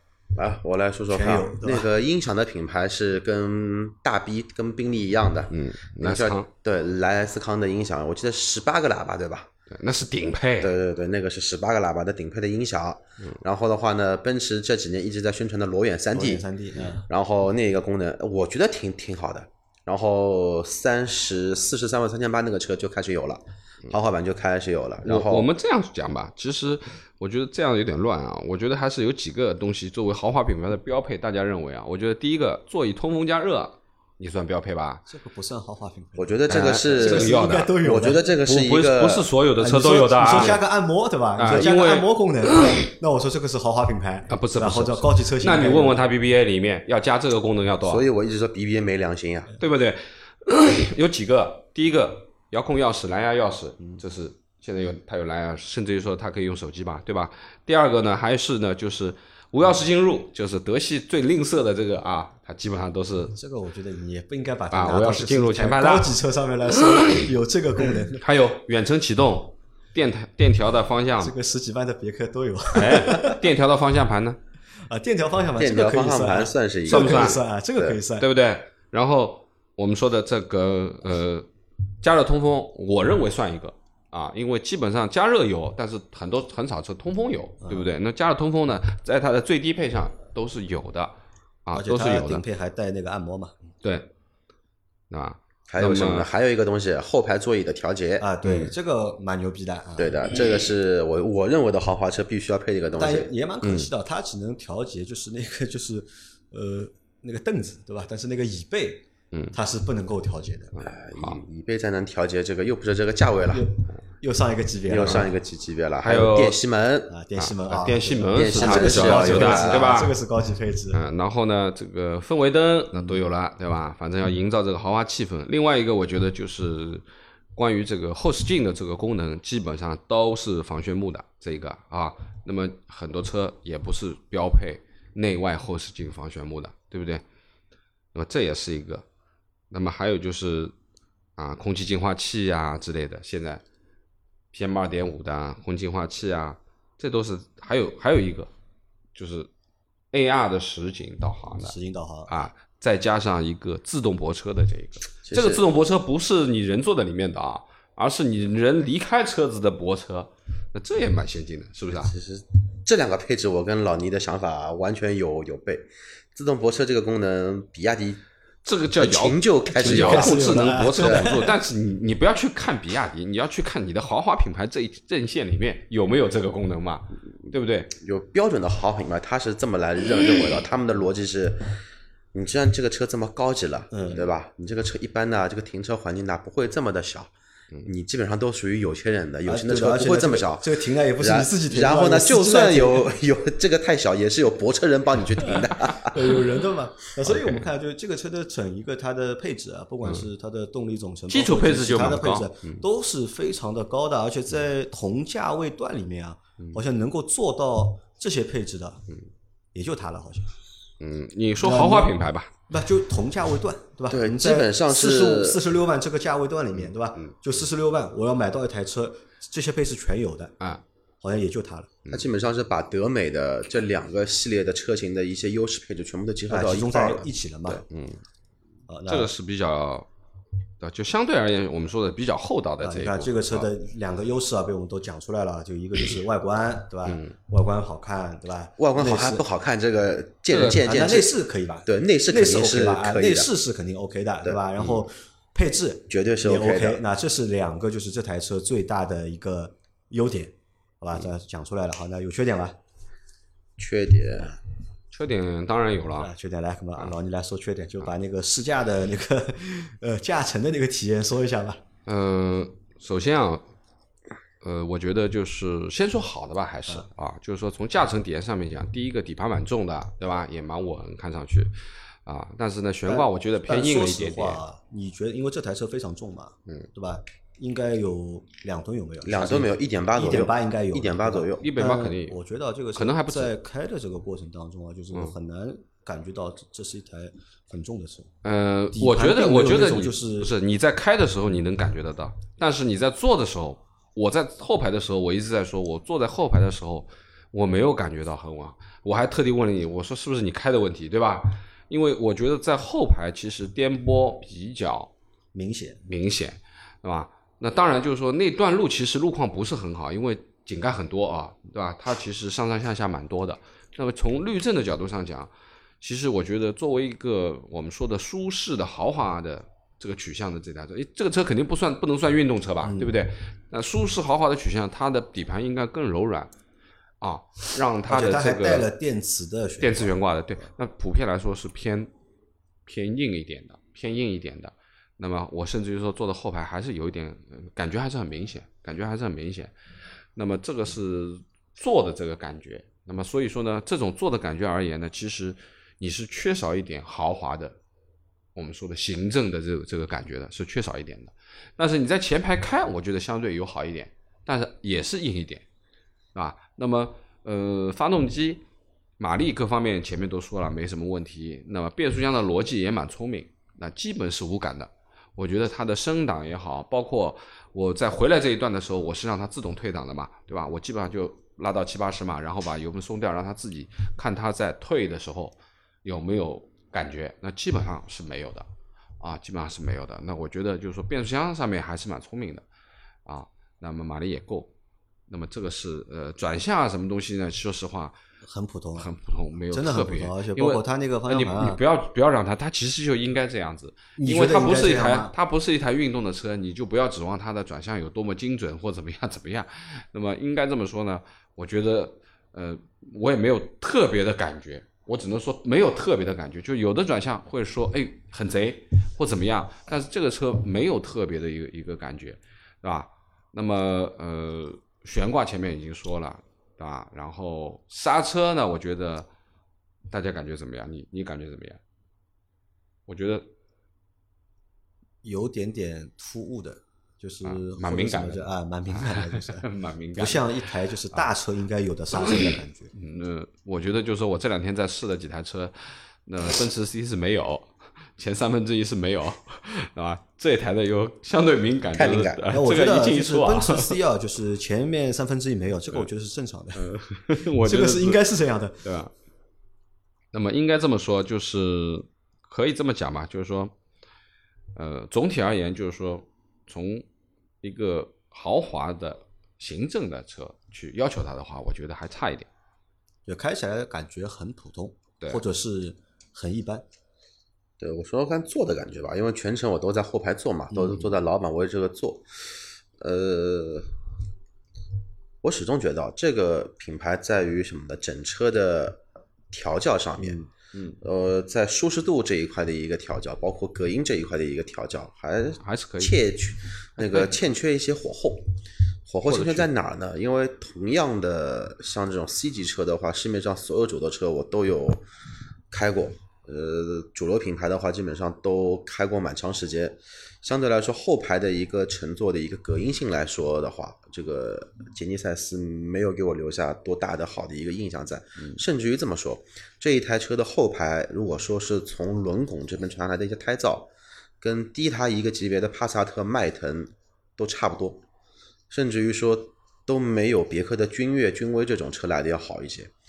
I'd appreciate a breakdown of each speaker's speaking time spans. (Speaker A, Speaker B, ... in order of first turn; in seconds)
Speaker A: 0.3-9.5, 10.6-16.4, 17.1-25.5, 36.2-39.3, 47.8-49.5, 75.6-78.0, 95.7-98.3, 100.0-103.3, 110.8-113.7, 114.9-117.1, 118.3-120.0, 155.3-155.7, 162.0-168.2, 169.0-171.4, 177.9-181.8, 182.3-187.3, 187.8-196.3, 214.1-215.6, 222.1-227.3, 238.8-241.3, 241.9-243.5, 246.1-247.0, 253.8-254.6, 279.2-281.7, 441.9-442.4, 467.8-473.9, 475.4-480.4, 481.0-495.0, 495.7-518.0, 518.7-522.9
Speaker B: 1.1-1.9, 16.1-17.1, 35.1-38.2, 39.6-46.0, 63.4-68.3, 71.2-73.5, 74.9-78.3, 87.6-87.9, 91.7-93.6, 98.2-100.2, 103.0-110.7, 113.5-115.3, 117.1-121.0, 151.6-152.3, 169.7-171.5, 183.9-184.2, 189.4-193.1, 195.5-209.1, 209.7-210.5, 211.6-212.2, 212.7-220.6, 221.2-221.9, 226.5-227.8, 228.9-229.3, 232.8-239.4, 240.8-252.8, 256.2-261.8, 273.1-288.3, 288.9-290.5, 305.5-306.0, 322.8-323.1, 328.1-330.2, 388.4-389.1, 389.7-391.8, 394.2-395.3, 425.2-432.9, 442.5-446.9, 447.6-448.9, 463.3-466.9, 470.7-471.1, 480.2-480.5
Speaker C: 5.5-6.5, 9.7-10.8, 25.1-35.0, 36.5-37.8, 38.5-40.6, 41.4-42.9, 44.3-48.0, 49.6-63.4, 64.7-66.2, 66.7-67.3, 68.2-71.3, 72.8-74.4, 76.9-77.4, 78.2-81.5, 82.0-92.4, 93.8-94.1, 95.1-96.3, 110.8-111.4, 116.0-116.6, 117.4-120.2, 120.9-127.0, 127.5-137.2, 138.1-139.1, 139.7-140.7, 141.4-143.6, 144.5-148.5, 149.2-149.5, 150.1-151.8, 152.3-162.1, 168.7-177.9, 197.3-197.6, 201.3-202.8, 211.0-212.5, 227.7-228.2, 229.1-230.1, 230.8-233.7, 237.1-237.3, 240.5-240.8, 255.1-256.3, 262.1-263.7, 264.6-271.7, 272.2-274.6, 281.6-282.4, 282.9-283.5, 288.4-305.1, 306.1-315.5, 316.0-326.5, 327.2-328.9, 329.8-332.1, 332.9-339.7, 340.4-347.8, 348.6-355.6, 356.4-358.6, 359.2-378.7, 379.2-382.6, 383.3-384.7, 385.3-388.1, 389.0-419.3, 420.1-421.8, 423.1-423.5, 427.4-430.5, 432.1-444.0, 446.8-448.2, 448.8-449.1, 450.3-453.7, 454.8-457.1, 457.6-462.5, 485.6-486.1, 489.2-489.7